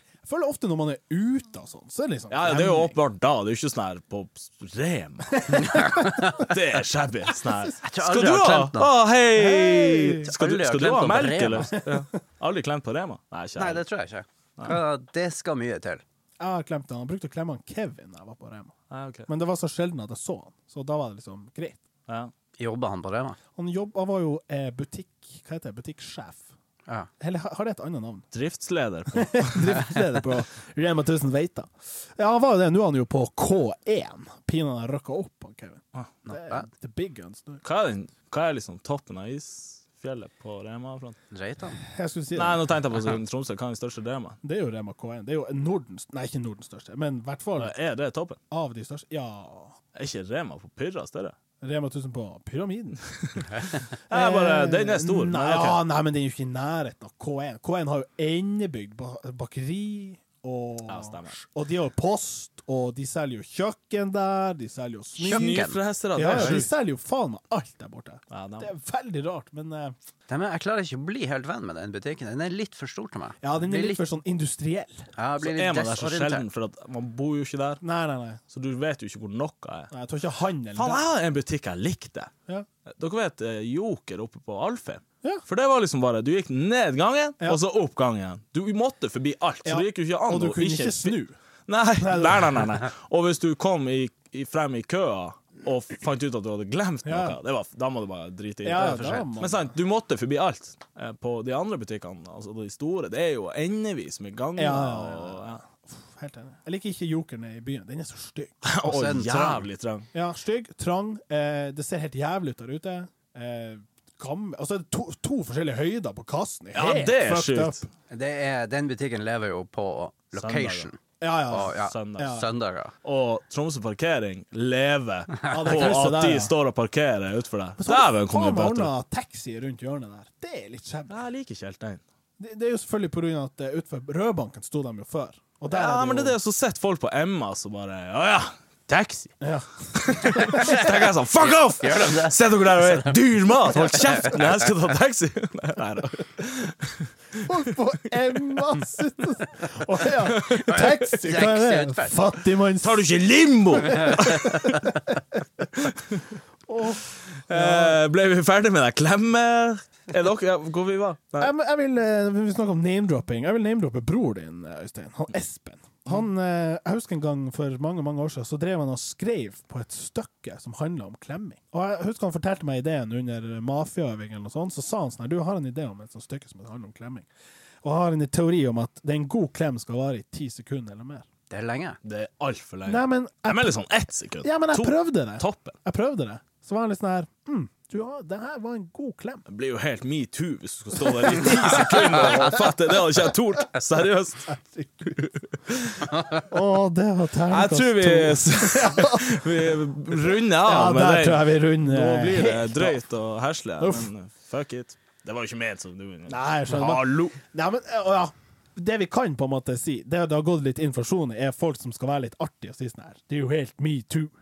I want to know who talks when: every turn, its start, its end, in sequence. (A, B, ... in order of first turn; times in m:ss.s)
0:00.2-0:03.0 A
0:02.3-0:13.8 B
0:05.4-0:06.2 A
0:05.5-0:06.5 C
0:07.8-0:08.9 C
0:09.4-0:10.3 A
0:10.2-0:11.9 C
0:13.6-0:16.0 C
0:16.4-0:18.7 A
0:18.9-0:19.3 B
0:19.3-0:21.8 A
0:22.6-0:23.4 C
0:23.6-0:26.5 A
0:27.2-0:28.2 A
0:28.3-0:30.0 B
0:29.1-0:37.6 A
0:36.2-0:36.6 C
0:37.6-0:41.2 B
0:41.3-0:41.8 C
0:41.8-0:42.6 A
0:42.4-0:44.4 B
0:44.4-0:47.7 A
0:47.6-0:48.4 B
0:48.5-0:49.8 A
0:49.9-0:51.4 B
0:51.6-1:05.6 A
0:53.2-0:55.8 B
1:00.9-1:01.4 B
1:05.2-1:05.8 C
1:05.2-1:06.7 B
1:06.1-1:10.0 A
1:08.3-1:08.7 B
1:10.3-1:14.0 C
1:13.4-1:15.0 A
1:15.2-1:16.4 C
1:15.4-1:17.8 B
1:17.8-1:18.4 A
1:18.5-1:19.9 B
1:19.9-1:21.0 A
1:20.7-1:22.3 B
1:22.9-1:31.2 B
1:29.6-1:31.3 A
1:31.7-1:45.6 B
1:32.0-1:32.6 A
1:37.0-1:37.4 A
1:38.6-1:39.7 A
1:38.7-1:39.2 C
1:44.6-1:48.6 A
1:48.6-1:50.1 B
1:48.8-1:49.6 C
1:50.1-1:57.8 A
1:56.7-1:57.8 B
1:58.1-2:02.9 C
2:00.4-2:00.9 B
2:01.2-2:02.5 A
2:01.5-2:02.5 B
2:03.0-2:08.9 B
2:05.5-2:06.5 A
2:07.8-2:11.2 A
2:11.1-2:12.0 B
2:12.4-2:16.4 A
2:15.7-2:19.3 B
2:19.4-2:20.8 A
2:19.9-2:27.6 B
2:20.4-2:24.6 C
2:27.4-2:33.0 A
2:30.3-2:30.8 B
2:30.7-2:32.2 C
2:32.8-2:34.9 B
2:33.8-2:35.2 A
2:35.8-2:36.2 B
2:36.6-2:38.0 A
2:37.5-2:41.5 B
2:41.4-2:57.3 A
2:57.8-3:01.2 A
3:01.5-3:02.0 C
3:02.0-3:05.8 B
3:02.8-3:03.8 A
3:04.4-3:09.4 A
3:09.5-3:14.5 B
3:11.1-3:12.7 A
3:14.5-3:15.2 A
3:15.1-3:16.2 B
3:16.1-3:19.8 A
3:17.5-3:27.4 B
3:20.3-3:23.0 A
3:23.8-3:24.1 A
3:26.3-3:34.3 A